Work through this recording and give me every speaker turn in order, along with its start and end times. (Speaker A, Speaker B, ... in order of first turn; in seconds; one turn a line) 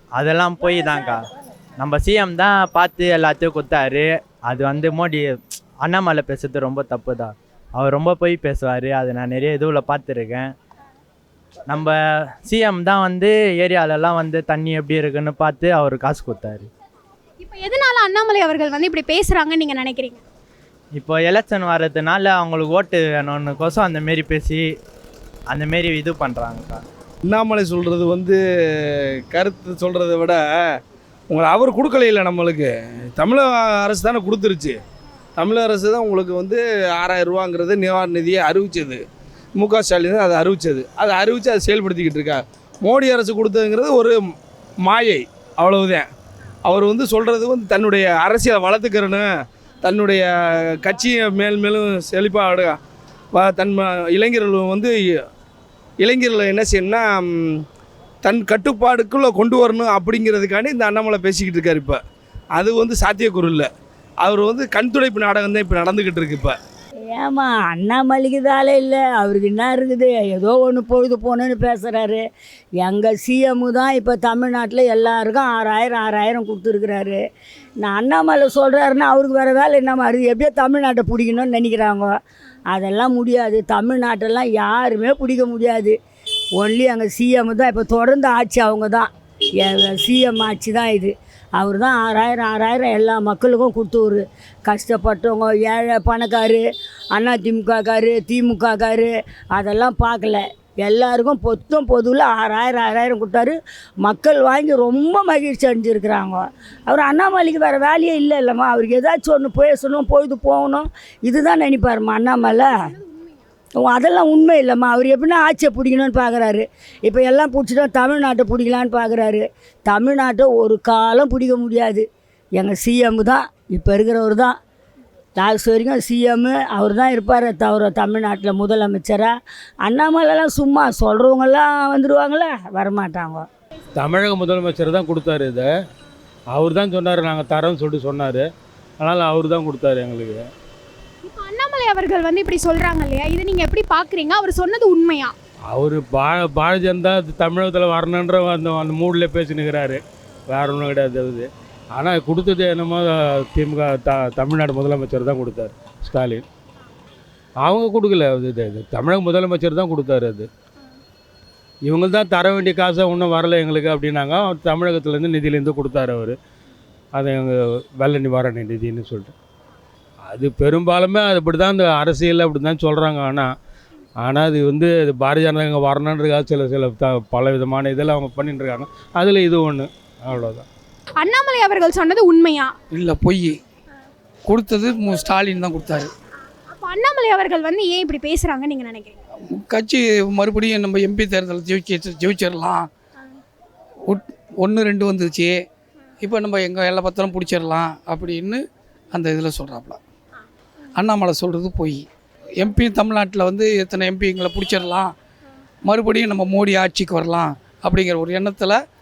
Speaker A: 0.2-1.2
Speaker A: 1.8-5.3
Speaker A: 5.8-10.5
Speaker A: 11.7-16.7
Speaker B: 17.4-20.2
Speaker A: 21.0-24.6
Speaker A: 25.5-26.8
Speaker C: 27.3-30.7
Speaker C: 31.3-34.8
Speaker C: 35.4-39.0
Speaker C: 39.6-44.1
Speaker C: 44.8-46.1
Speaker C: 46.7-49.3
Speaker C: 49.8-52.8
Speaker C: 53.3-54.9
Speaker C: 56.0-57.6
Speaker C: 58.2-62.0
Speaker C: 62.5-63.7
Speaker C: 64.2-66.6
Speaker D: 67.1-72.2
Speaker D: 72.8-77.2
Speaker D: 77.8-82.2
Speaker D: 82.7-86.0
Speaker D: 86.6-112.7
Speaker D: 113.8-122.1
Speaker D: 122.6-124.6
Speaker D: 125.4-129.3
Speaker D: 129.8-133.4
Speaker E: 134.0-135.7
Speaker E: 136.5-138.4
Speaker E: 139.0-140.4
Speaker B: 141.2-145.3
Speaker E: 145.7-156.4
Speaker E: 157.6-160.5
Speaker E: 161.9-166.4
Speaker E: 167.1-169.3
Speaker E: 170.3-173.5
Speaker E: 174.2-180.7
Speaker B: 181.2-182.7
Speaker F: 182.9-183.6
Speaker F: 184.5-186.1
Speaker B: 186.7-189.2
Speaker F: 189.5-192.9
Speaker F: 194.1-195.6
Speaker F: 196.2-200.0
Speaker F: 201.0-202.1
Speaker F: 202.6-205.2
Speaker F: 205.8-208.8